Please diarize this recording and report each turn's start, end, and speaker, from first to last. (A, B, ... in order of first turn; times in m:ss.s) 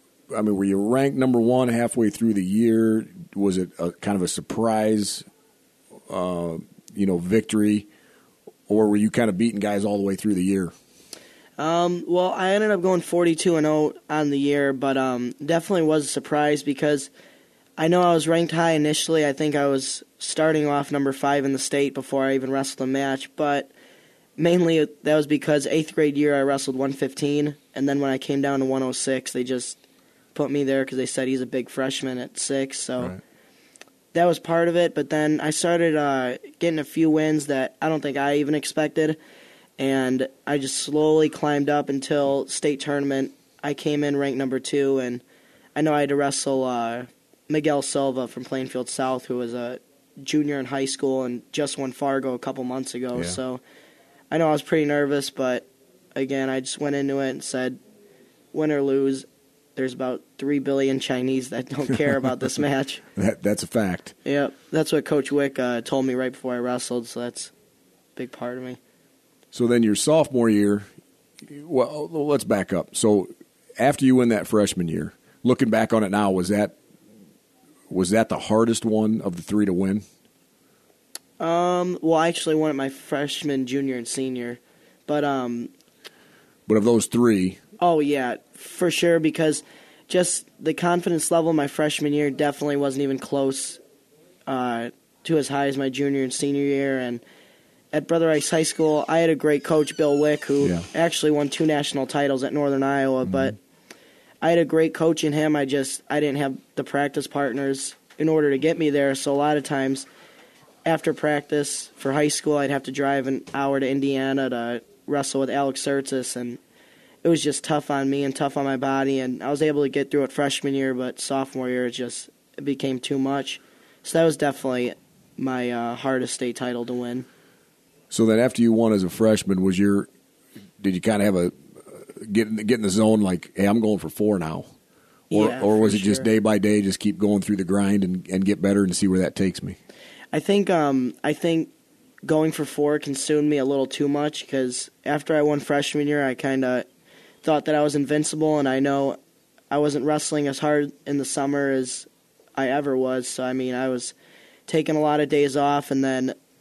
0:00.3-0:05.2 A
0:06.1-0:07.9 A
0:08.7-0:10.7 A
0:11.6-0:17.1 B
0:17.8-0:23.7 B
0:24.4-0:29.8 B
0:30.3-0:33.2 B
0:34.1-0:39.2 B
0:39.8-0:45.2 B
0:45.7-0:53.6 B
0:54.3-0:57.8 B
0:58.5-1:03.0 B
1:03.2-1:04.1 A
1:04.2-1:07.5 B
1:08.2-1:08.8 B
1:09.5-1:10.9 A
1:11.4-1:16.8 A
1:17.9-1:20.0 A
1:21.4-1:25.7 B
1:26.7-1:27.6 A
1:27.8-1:33.8 B
1:34.5-1:37.2 B
1:37.9-1:43.6 B
1:40.6-1:40.9 A
1:43.2-1:43.6 A
1:44.4-1:50.0 B
1:50.8-1:56.6 B
1:57.2-2:07.3 B
2:08.1-2:10.1 A
2:10.8-2:14.7 A
2:15.3-2:16.2 B
2:15.3-2:19.8 A
2:20.3-2:21.7 B
2:22.2-2:26.8 B
2:27.4-2:29.2 B
2:29.7-2:34.1 B
2:34.7-2:36.3 B